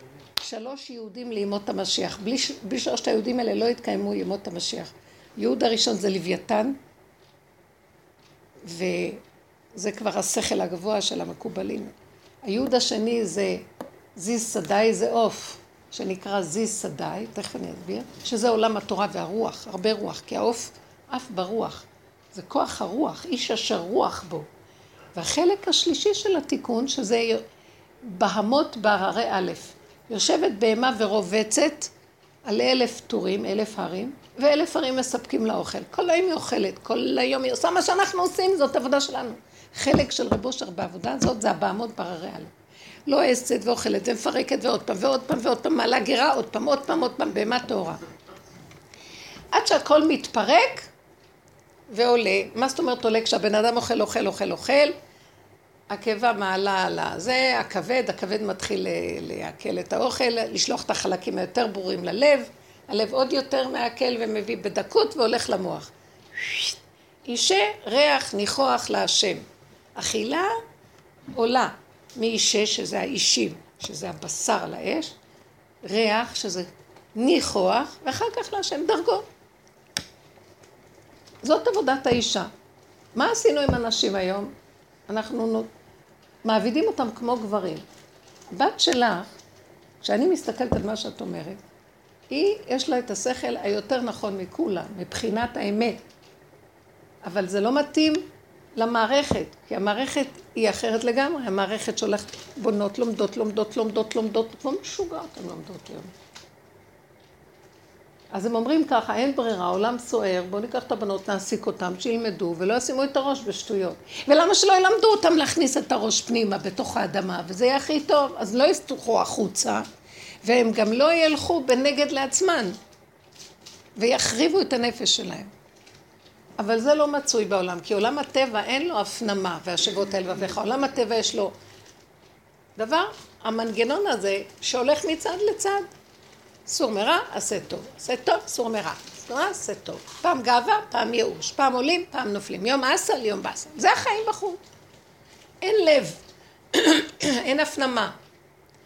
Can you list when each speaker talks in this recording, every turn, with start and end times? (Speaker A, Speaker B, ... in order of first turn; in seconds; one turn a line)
Speaker A: 0.4-6.8
Speaker A: 8.6-9.2
Speaker A: 9.8-11.9
Speaker A: 12.4-13.6
Speaker A: 14.2-24.5
Speaker A: 25.1-27.4
Speaker A: 28.0-31.9
Speaker A: 32.5-42.5
Speaker A: 43.1-48.0
Speaker A: 49.5-50.9
Speaker A: 51.9-55.0
Speaker A: 55.9-66.8
Speaker A: 67.3-69.5
Speaker A: 70.0-70.5
Speaker A: 71.3-75.2
Speaker A: 75.8-79.2
Speaker A: 81.4-82.5
Speaker A: 83.2-84.5
Speaker A: 85.1-85.7
Speaker A: 86.5-87.8
Speaker A: 88.5-89.3
Speaker A: 90.0-91.6
Speaker A: 92.3-96.0
Speaker A: 97.2-98.2
Speaker A: 98.8-106.1
Speaker A: 108.3-119.8
Speaker A: 120.5-122.8
Speaker A: 124.0-125.5
Speaker A: 126.6-131.5
Speaker A: 132.8-135.9
Speaker A: 136.7-144.6
Speaker A: 145.6-146.2
Speaker A: 146.7-148.2